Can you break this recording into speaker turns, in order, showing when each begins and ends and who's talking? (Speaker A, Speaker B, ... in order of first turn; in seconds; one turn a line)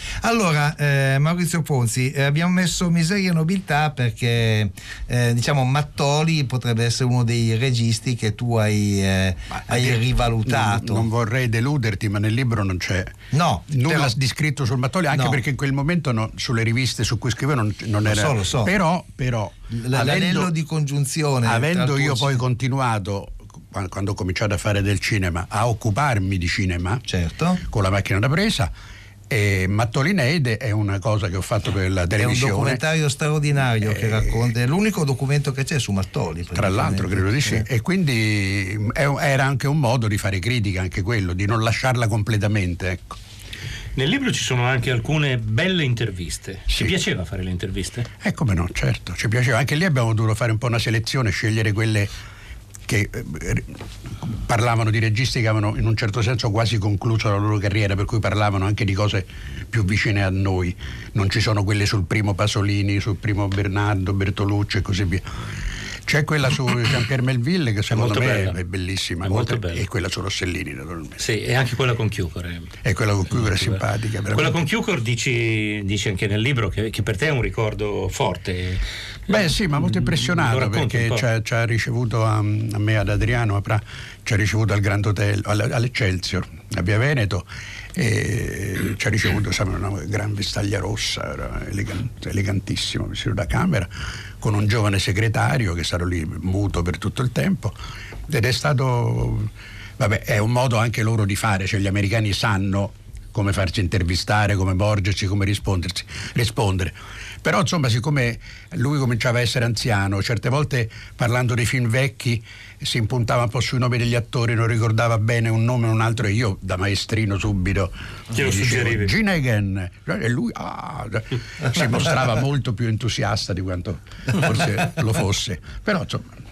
Speaker A: 0.2-11.1
Speaker B: 9.6-13.2
Speaker A: 13.3-14.2
Speaker B: 13.7-20.5
Speaker A: 15.1-15.4
Speaker A: 18.1-18.7
Speaker A: 19.7-22.4
Speaker B: 21.4-27.0
Speaker A: 27.1-27.6
Speaker B: 27.7-28.7
Speaker B: 29.3-32.8
Speaker A: 32.2-37.7
Speaker B: 36.5-43.1
Speaker C: 44.0-48.1
Speaker B: 46.7-46.9
Speaker B: 48.2-52.1
Speaker B: 52.9-53.7
Speaker B: 54.2-65.3
Speaker B: 66.1-71.2
Speaker C: 67.9-68.6
Speaker C: 69.2-69.8
Speaker C: 71.2-72.7
Speaker B: 72.8-74.6
Speaker C: 73.3-78.8
Speaker B: 79.3-97.8
Speaker C: 79.3-81.2
Speaker B: 98.3-126.4
Speaker C: 118.3-119.1